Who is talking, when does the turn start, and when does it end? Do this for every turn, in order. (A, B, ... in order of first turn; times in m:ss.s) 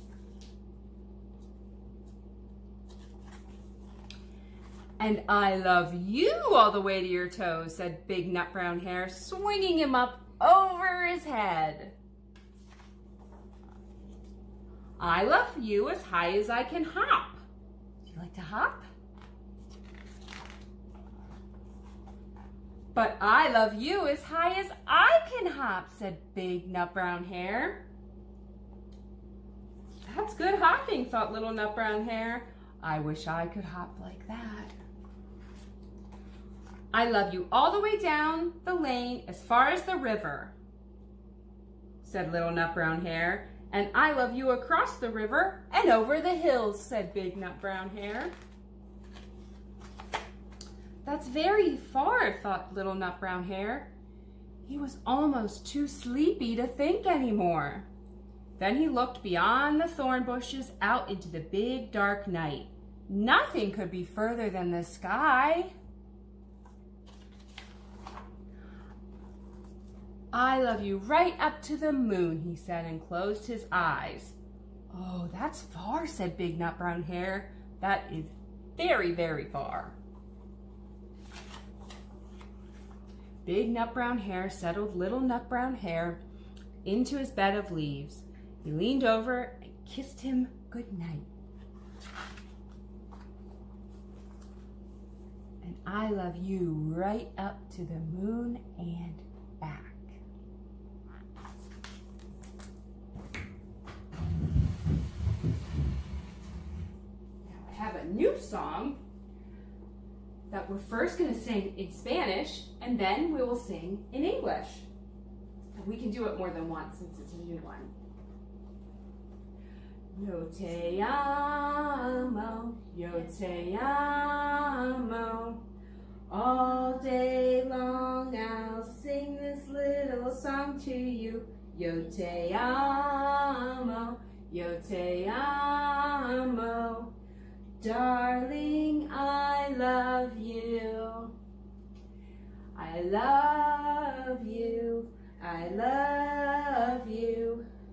0:05.0-0:12.0 A
0:15.0-0:17.4 A
0:18.0-0:18.9 A
0:22.9-0:27.9 A
0:30.0-0:34.7 A
0:36.9-0:40.6 A
0:42.0-0:48.3 A
0:51.0-0:53.9 A
0:54.6-0:57.9 A
0:58.6-1:05.7 A
1:10.3-1:14.4 A
1:14.9-1:20.0 A
1:23.4-1:26.2 A
1:26.8-1:31.3 A
1:35.6-1:40.2 A
1:47.4-1:49.0 A
1:50.5-1:54.9 A
1:55.8-1:57.9 A
2:00.1-2:05.6 A
2:06.3-2:17.1 A
2:17.8-2:21.4 A
2:22.8-2:27.6 A